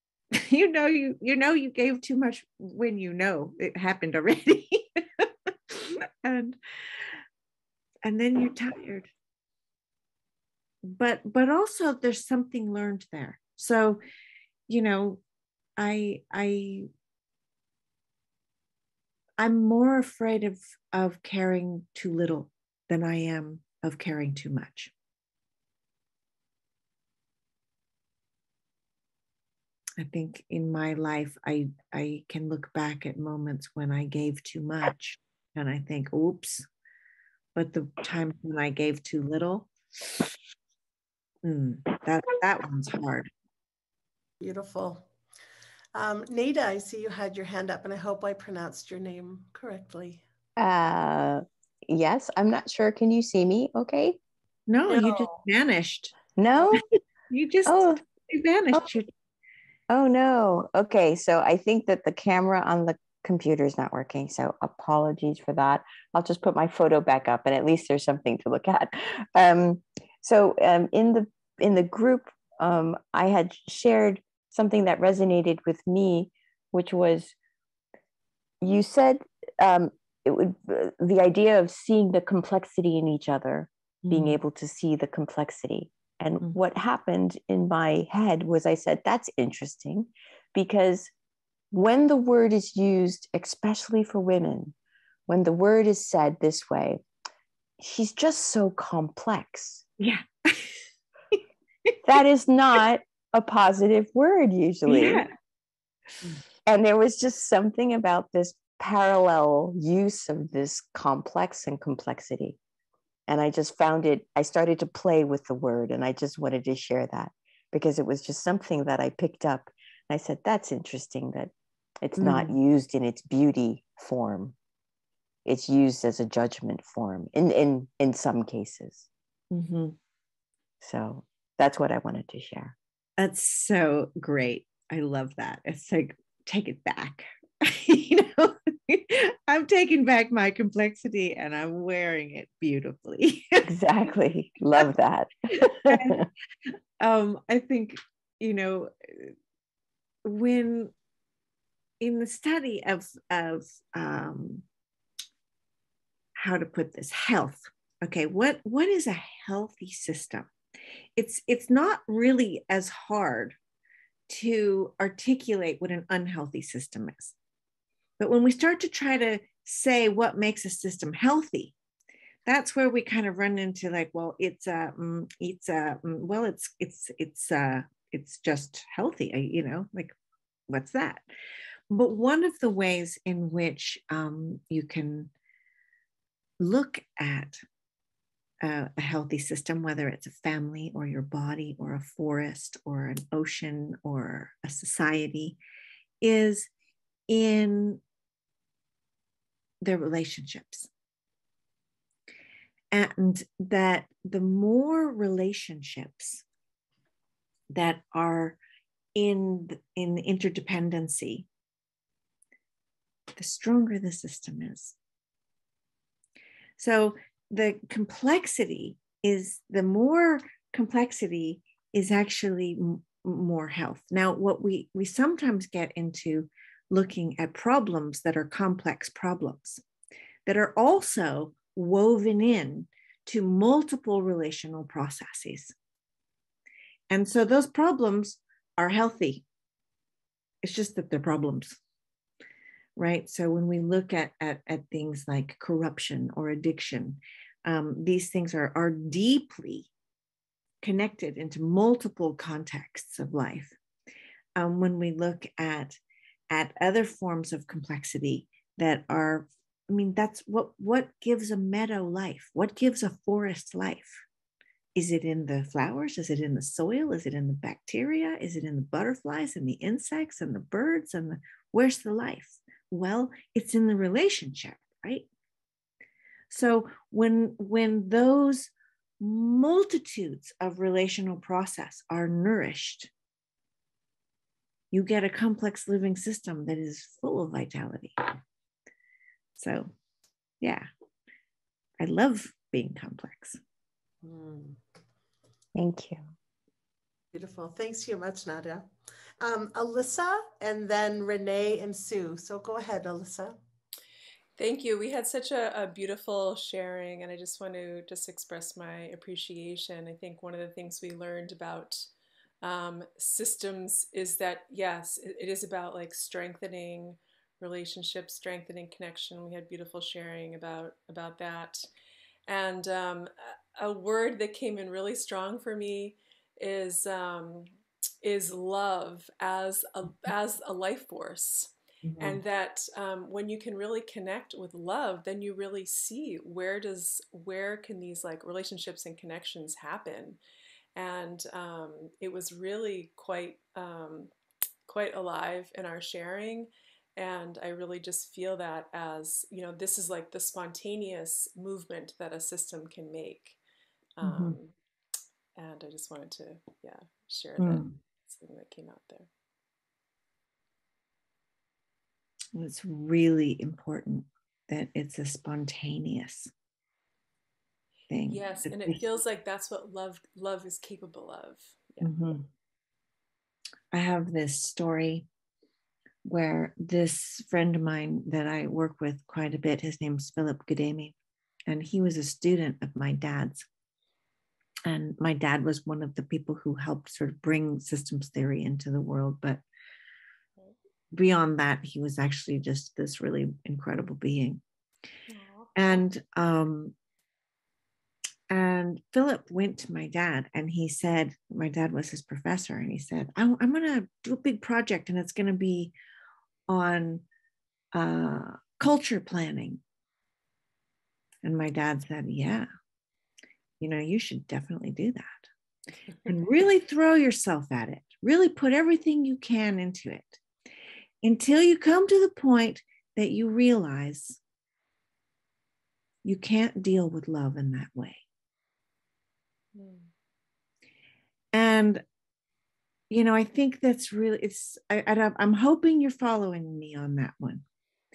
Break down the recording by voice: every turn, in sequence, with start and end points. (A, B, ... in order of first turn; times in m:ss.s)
0:00.3-0:07.2 A
0:08.0-0:09.1 A
0:10.8-0:14.0 A
0:14.7-0:15.2 A
0:15.8-0:16.9 A
0:19.4-0:24.9 A
0:30.0-0:36.6 A
0:37.5-0:39.7 A
0:41.4-0:43.3 A
0:44.4-0:45.1 B
0:45.9-0:50.2 B
0:50.6-0:54.2 C
0:54.7-0:56.2 A
0:54.9-0:55.3 B
0:56.4-0:56.8 C
0:57.3-0:59.1 A
0:57.6-0:58.0 C
0:59.9-1:17.3 C
1:18.6-1:31.1 C
1:24.0-1:24.4 A
1:31.7-1:34.7 C
1:35.3-1:37.0 C
1:37.8-1:39.8 C
1:40.0-1:40.7 A
1:42.0-1:45.2 C
1:44.9-1:45.3 A
1:46.7-1:52.6 C
1:53.3-2:04.5 C
2:02.2-2:02.5 A
2:05.4-2:09.1 C
2:09.5-2:10.0 A
2:10.8-2:12.7 C
2:13.2-2:23.6 A
2:23.6-2:26.3 C
2:25.8-2:26.3 A
2:27.0-2:29.3 A
2:30.2-2:30.9 A
2:32.0-2:34.6 A
2:36.4-2:40.5 A
2:41.2-2:43.6 A
2:44.3-2:47.3 A
2:48.2-2:51.7 A
2:52.4-3:00.1 A
3:00.7-3:01.2 A
3:01.9-3:05.3 A
3:06.6-3:07.6 A
3:08.6-3:15.6 A
3:16.2-3:16.7 A
3:17.3-3:18.0 A
3:19.8-3:20.9 A
3:22.9-3:26.4 A
3:27.7-3:28.6 A
3:29.1-3:31.5 A
3:33.4-3:35.0 A
3:36.8-3:49.8 A
3:50.4-3:55.7 A
3:57.1-3:59.4 A
4:00.6-4:01.8 A
4:03.0-4:09.9 A
4:10.8-4:13.7 A
4:14.6-4:16.0 A
4:16.5-4:24.2 A
4:24.9-4:35.3 A
4:36.5-4:43.1 A
4:44.9-4:48.3 A
4:49.6-4:49.9 A
4:50.6-4:50.8 A
4:52.0-4:53.6 A
4:54.2-4:54.8 B
4:55.7-4:56.3 C
4:57.3-4:58.8 B
4:59.4-5:03.6 B
5:04.6-5:12.1 D
5:12.6-5:21.9 D
5:22.5-5:27.7 D
5:28.2-5:40.4 D
5:32.1-5:32.4 A
5:40.9-5:44.3 D
5:44.9-5:53.6 D
5:54.2-5:54.7 D
5:54.2-5:54.6 A
5:55.5-5:59.3 D
5:57.6-5:58.0 A
6:02.5-6:06.5 A
6:08.1-6:09.0 A
6:08.3-6:12.1 D
6:12.0-6:12.4 A
6:13.9-6:15.3 A
6:16.2-6:21.1 A
6:21.7-6:23.6 A
6:24.9-6:29.6 A
6:31.1-6:34.6 A
6:35.3-6:36.0 D
6:35.7-6:36.9 A
6:38.5-6:45.9 A
6:46.7-6:47.2 A
6:47.9-6:49.8 A
6:51.4-6:52.7 A
6:53.8-6:55.5 A
6:56.3-7:00.4 A
7:01.2-7:04.4 A
7:06.2-7:08.2 A
7:09.7-7:10.1 D
7:11.5-7:12.0 A
7:13.1-7:17.6 A